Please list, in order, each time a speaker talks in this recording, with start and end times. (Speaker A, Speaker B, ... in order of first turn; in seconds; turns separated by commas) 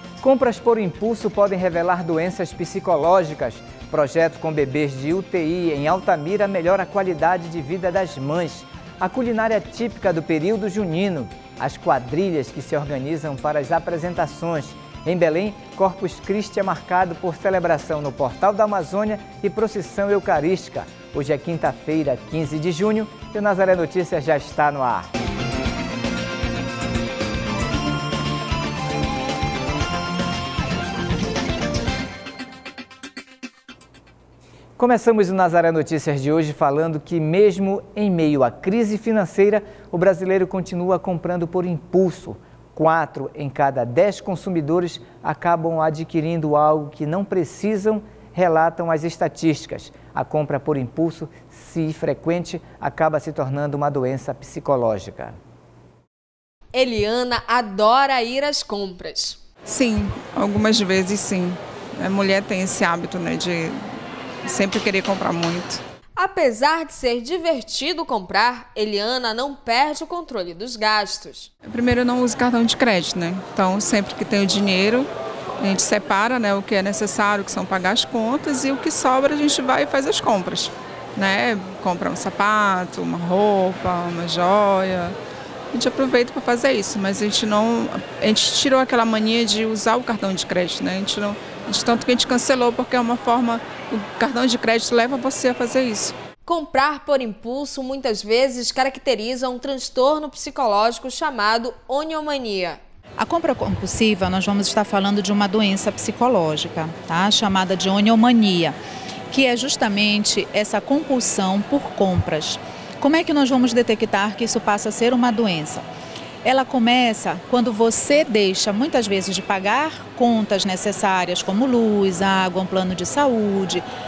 Speaker A: 0.2-25.1, Speaker A: 34.8-55.4, Speaker B: 56.7-59.4, Speaker C: 59.6-63.8, Speaker C: 64.4-65.8, Speaker B: 66.2-71.5, Speaker C: 71.6-75.1, Speaker C: 75.6-85.1, Speaker C: 85.7-96.2, Speaker B: 96.5-102.8, Speaker D: 103.2-108.8, Speaker D: 109.3-115.8, Speaker D: 116.4-123.8